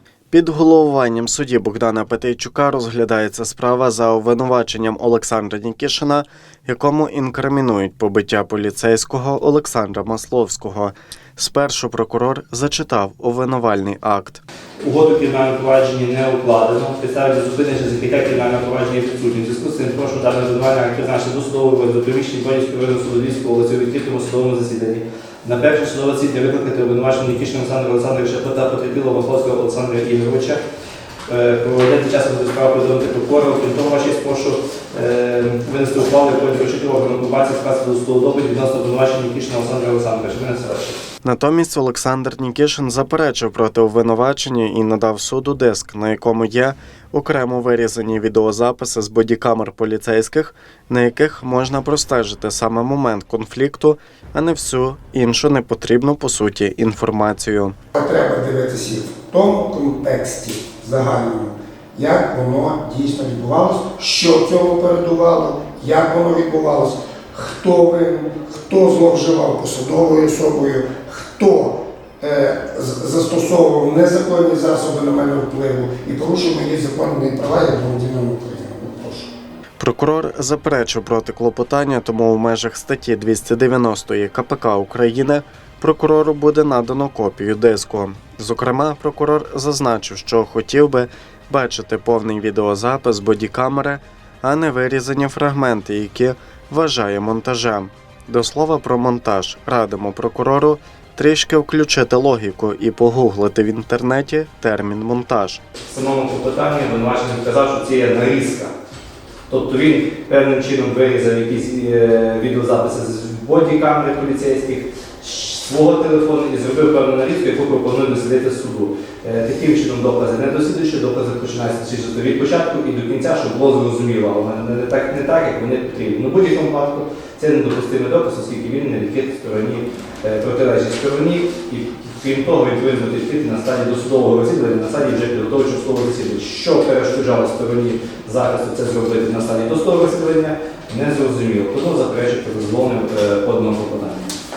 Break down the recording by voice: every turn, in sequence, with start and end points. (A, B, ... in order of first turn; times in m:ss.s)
0:00.3-0:14.4 A
0:14.8-0:30.6 B
0:31.3-0:41.0 B
0:41.2-0:57.8 A
0:57.9-1:19.3 C
1:19.8-1:45.6 A
1:45.9-1:48.7 B
1:49.5-2:24.3 B